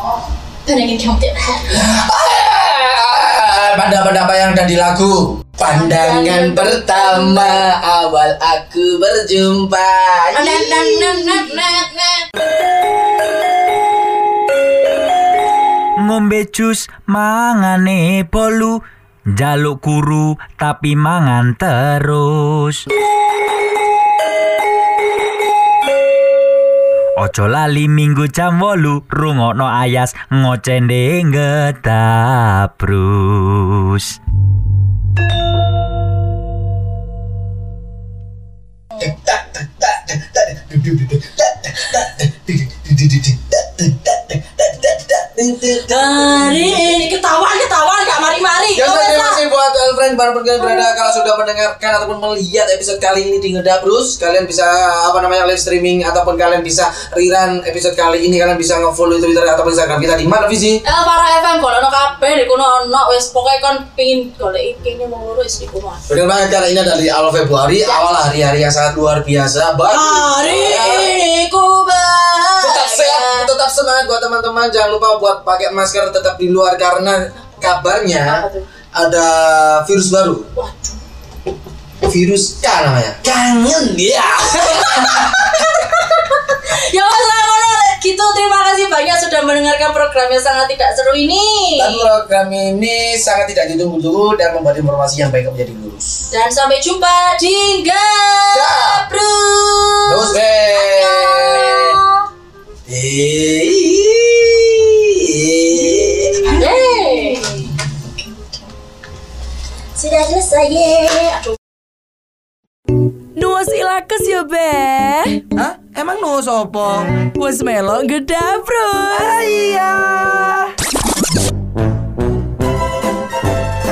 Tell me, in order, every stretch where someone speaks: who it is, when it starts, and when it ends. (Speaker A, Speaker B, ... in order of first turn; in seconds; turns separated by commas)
Speaker A: 0.6-1.8, Speaker B: 1.7-11.6, Speaker A: 5.6-7.6, Speaker A: 10.3-12.3, Speaker C: 16.0-18.8, Speaker C: 19.3-22.8, Speaker C: 27.2-34.1, Speaker B: 39.0-47.0, Speaker A: 45.8-49.4, Speaker B: 48.7-60.8, Speaker A: 50.6-50.9, Speaker A: 60.8-66.0, Speaker B: 66.1-71.1, Speaker A: 67.8-68.1, Speaker A: 69.9-73.5, Speaker B: 72.6-80.4, Speaker A: 78.2-78.7, Speaker A: 80.5-81.0, Speaker B: 82.0-85.6, Speaker A: 84.5-92.1, Speaker B: 91.8-96.3, Speaker A: 96.3-102.2, Speaker B: 98.5-99.0, Speaker B: 100.1-102.0, Speaker B: 102.9-106.6, Speaker A: 106.5-107.7, Speaker A: 110.0-111.5, Speaker D: 113.3-115.5, Speaker E: 115.6-116.9, Speaker D: 117.3-119.8, Speaker E: 119.1-120.3